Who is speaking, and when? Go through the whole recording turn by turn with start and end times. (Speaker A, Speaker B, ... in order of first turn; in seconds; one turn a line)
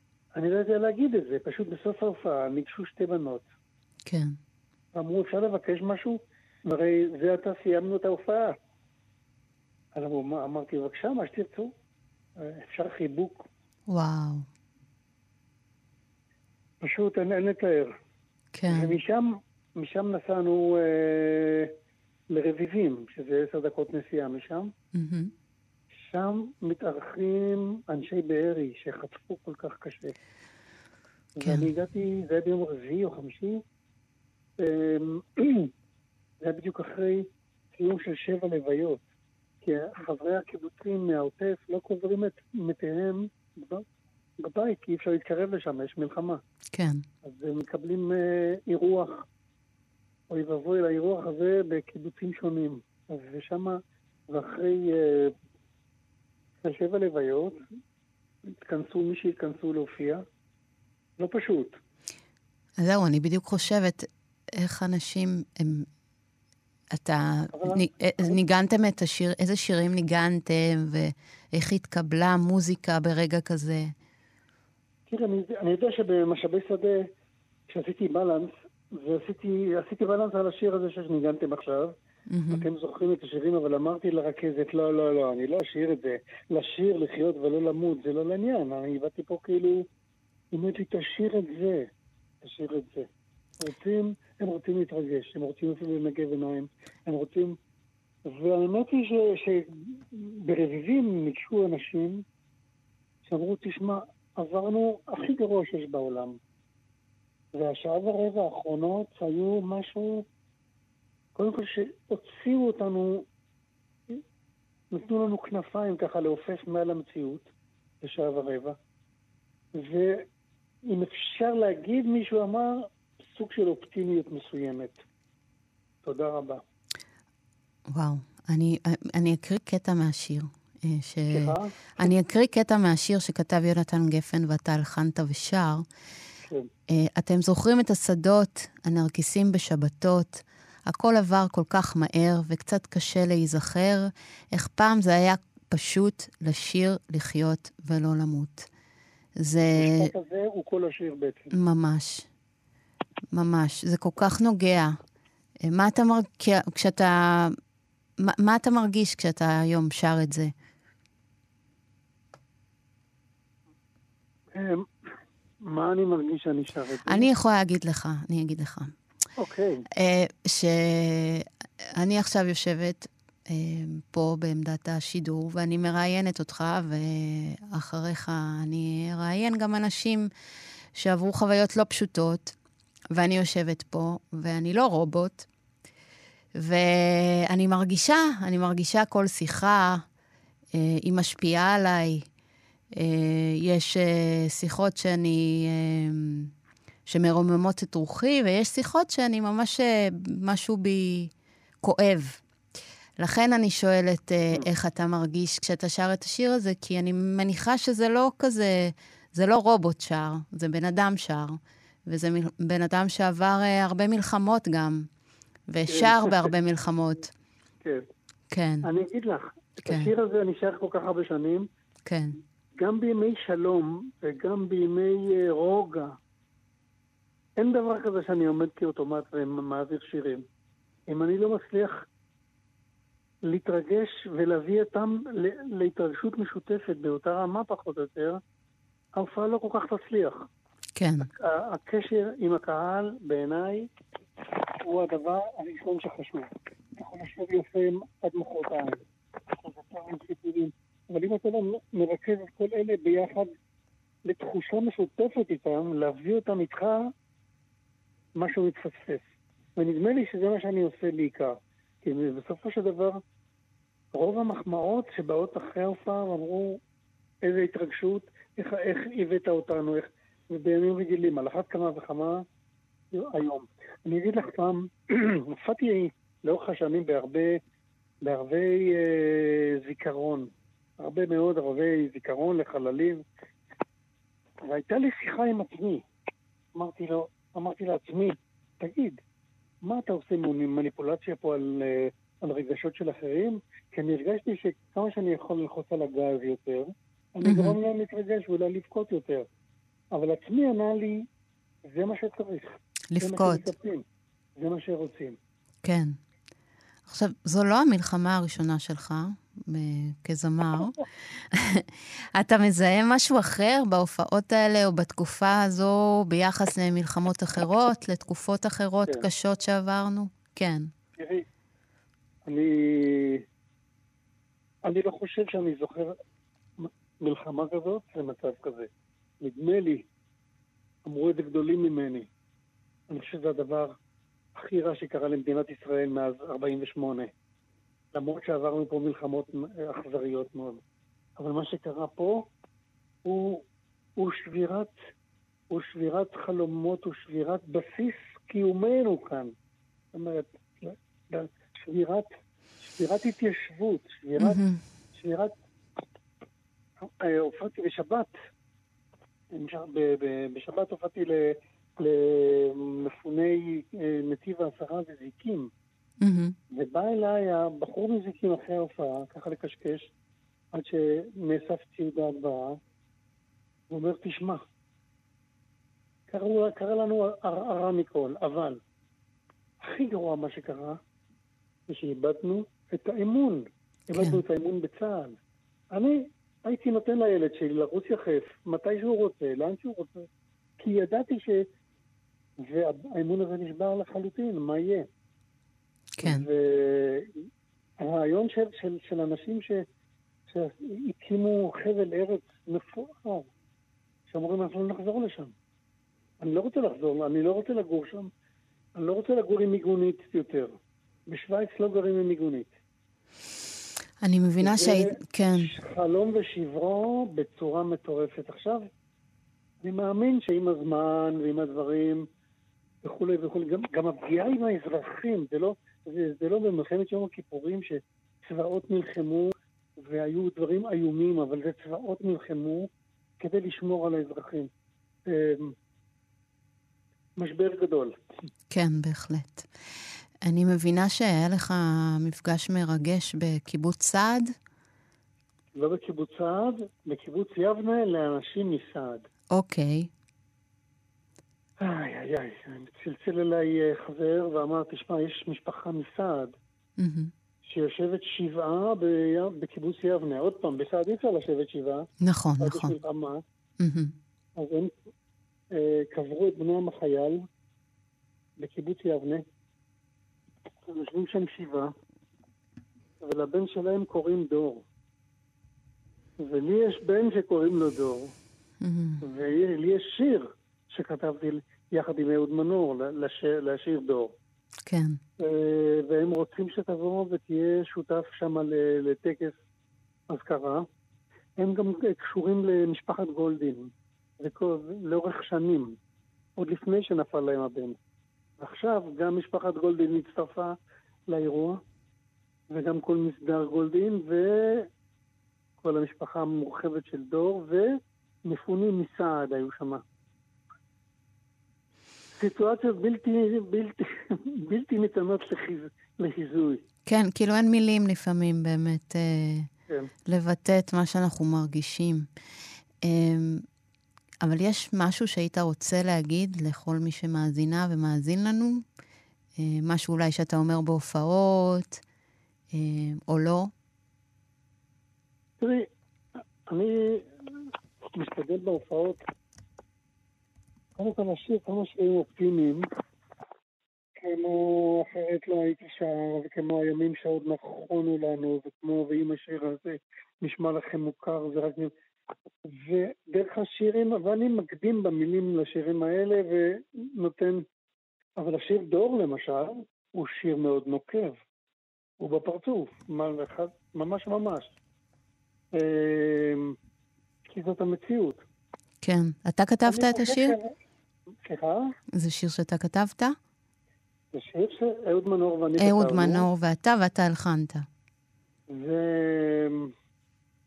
Speaker A: 0.3-3.5
Speaker B: 4.1-4.4
Speaker A: 4.9-8.6
Speaker A: 9.9-11.7
Speaker A: 12.4-13.5
Speaker B: 13.9-14.5
Speaker A: 16.8-17.9
Speaker B: 18.5-19.0
Speaker A: 18.7-21.7
Speaker A: 22.3-24.7
Speaker B: 24.9-25.3
Speaker A: 26.0-30.2
Speaker A: 31.4-33.6
Speaker B: 31.4-31.7
Speaker A: 34.6-35.7
Speaker A: 36.4-39.0
Speaker A: 39.6-43.9
Speaker A: 44.4-46.4
Speaker B: 46.7-47.0
Speaker A: 47.2-49.2
Speaker A: 50.3-55.3
Speaker A: 56.6-57.6
Speaker A: 58.5-60.2
Speaker A: 61.2-61.8
Speaker B: 62.8-65.9
Speaker B: 66.9-73.9
Speaker A: 67.5-68.4
Speaker A: 75.1-77.1
Speaker A: 77.7-81.9
Speaker B: 82.3-82.7
Speaker A: 82.5-89.9
Speaker A: 90.5-91.9
Speaker A: 92.4-93.1
Speaker A: 93.6-97.6
Speaker A: 98.3-102.2
Speaker A: 103.3-106.4
Speaker A: 107.5-110.2
Speaker A: 111.3-113.2
Speaker A: 114.9-117.5
Speaker A: 118.0-118.8
Speaker A: 119.8-120.3
Speaker A: 120.9-125.0
Speaker A: 126.0-126.6
Speaker B: 127.9-135.8
Speaker A: 131.3-132.2
Speaker B: 136.9-148.7
Speaker B: 149.4-150.1
Speaker A: 149.8-151.6
Speaker B: 151.6-152.3
Speaker B: 153.3-154.9
Speaker B: 155.7-157.5
Speaker B: 158.2-160.5
Speaker A: 164.5-164.8
Speaker A: 165.6-167.3
Speaker B: 167.1-168.9
Speaker A: 169.4-169.9
Speaker B: 170.0-171.5
Speaker B: 172.0-180.3
Speaker B: 181.0-182.6
Speaker B: 183.1-185.5
Speaker B: 186.6-190.0
Speaker B: 190.7-192.2
Speaker B: 192.9-196.5
Speaker B: 197.1-201.3
Speaker B: 201.8-202.4
Speaker B: 203.2-215.1
Speaker B: 215.7-217.3
Speaker A: 215.9-216.5
Speaker B: 218.5-218.9
Speaker A: 218.8-221.7
Speaker B: 219.8-220.1
Speaker B: 222.1-222.4
Speaker A: 222.8-226.1
Speaker A: 227.6-230.4
Speaker A: 231.1-232.0
Speaker A: 233.4-238.4
Speaker A: 239.2-240.4
Speaker B: 241.0-241.3
Speaker A: 241.2-243.9
Speaker A: 244.8-253.5
Speaker A: 254.3-257.1
Speaker A: 258.4-259.2
Speaker A: 259.8-263.2
Speaker A: 264.1-266.8
Speaker A: 267.4-272.4
Speaker A: 273.1-277.6
Speaker A: 278.2-283.2
Speaker A: 284.7-286.1
Speaker A: 286.8-289.2
Speaker A: 289.8-299.5
Speaker B: 297.4-297.8
Speaker A: 300.1-301.2
Speaker A: 301.9-304.0
Speaker B: 303.1-303.6
Speaker A: 304.6-305.4
Speaker B: 305.8-306.1
Speaker B: 307.1-320.9
Speaker A: 321.2-321.4
Speaker A: 322.4-323.4
Speaker A: 324.9-326.2
Speaker A: 326.8-328.9
Speaker A: 329.4-330.1
Speaker A: 331.1-332.3
Speaker A: 333.1-333.9
Speaker A: 334.6-337.3
Speaker A: 338.1-340.8
Speaker A: 341.4-342.5
Speaker A: 343.2-343.6
Speaker A: 344.2-344.9
Speaker A: 345.7-349.5
Speaker A: 350.1-352.3
Speaker A: 352.8-354.6
Speaker B: 354.4-354.8
Speaker A: 355.1-355.5
Speaker A: 357.0-358.3
Speaker A: 359.5-365.7
Speaker B: 366.2-366.6
Speaker A: 366.7-370.1
Speaker A: 370.7-372.8
Speaker A: 373.9-374.6
Speaker A: 376.3-378.8
Speaker A: 379.8-381.0
Speaker A: 381.9-385.4
Speaker B: 384.1-384.4
Speaker A: 385.9-390.3
Speaker A: 390.8-391.6
Speaker A: 392.6-395.1
Speaker B: 396.2-396.5
Speaker A: 396.2-397.3
Speaker A: 398.0-399.8
Speaker A: 400.5-403.5
Speaker A: 404.3-405.5
Speaker A: 406.4-408.3
Speaker A: 409.0-410.8
Speaker A: 411.3-412.7
Speaker B: 414.2-415.7
Speaker A: 414.6-418.9
Speaker A: 419.8-422.2
Speaker A: 423.0-432.9
Speaker A: 433.4-434.7
Speaker A: 435.3-435.8
Speaker A: 437.4-438.2
Speaker B: 438.7-439.7
Speaker B: 440.4-444.5
Speaker A: 445.7-449.2
Speaker B: 449.5-450.1
Speaker A: 451.8-456.6
Speaker B: 457.0-457.3
Speaker A: 457.6-462.1
Speaker B: 462.2-462.9
Speaker A: 462.6-463.4
Speaker B: 463.8-464.1
Speaker A: 464.6-464.9
Speaker A: 465.7-467.4
Speaker A: 468.6-469.4
Speaker A: 470.9-471.9
Speaker A: 473.2-474.8
Speaker A: 476.4-478.3
Speaker B: 478.8-479.2
Speaker A: 479.2-484.3
Speaker B: 484.9-485.2
Speaker A: 485.4-489.6
Speaker A: 490.3-490.9
Speaker A: 491.6-496.0
Speaker A: 496.6-498.0
Speaker A: 498.6-500.7
Speaker A: 501.3-501.8
Speaker A: 502.7-504.9
Speaker A: 505.8-510.0
Speaker A: 512.4-516.8
Speaker B: 517.1-519.7
Speaker B: 520.3-522.3
Speaker B: 523.0-523.6
Speaker B: 524.4-528.8
Speaker B: 529.6-532.0
Speaker B: 532.7-533.7
Speaker A: 535.6-535.9
Speaker A: 536.7-539.2
Speaker A: 541.0-542.9
Speaker A: 544.2-551.9
Speaker A: 552.7-557.6
Speaker A: 558.4-561.4
Speaker A: 562.2-564.7
Speaker A: 565.7-566.8
Speaker A: 567.5-568.4
Speaker B: 569.0-570.6
Speaker A: 569.9-570.7
Speaker A: 571.5-571.9
Speaker B: 572.1-573.4
Speaker A: 574.3-576.5
Speaker B: 575.8-577.9
Speaker A: 578.7-579.9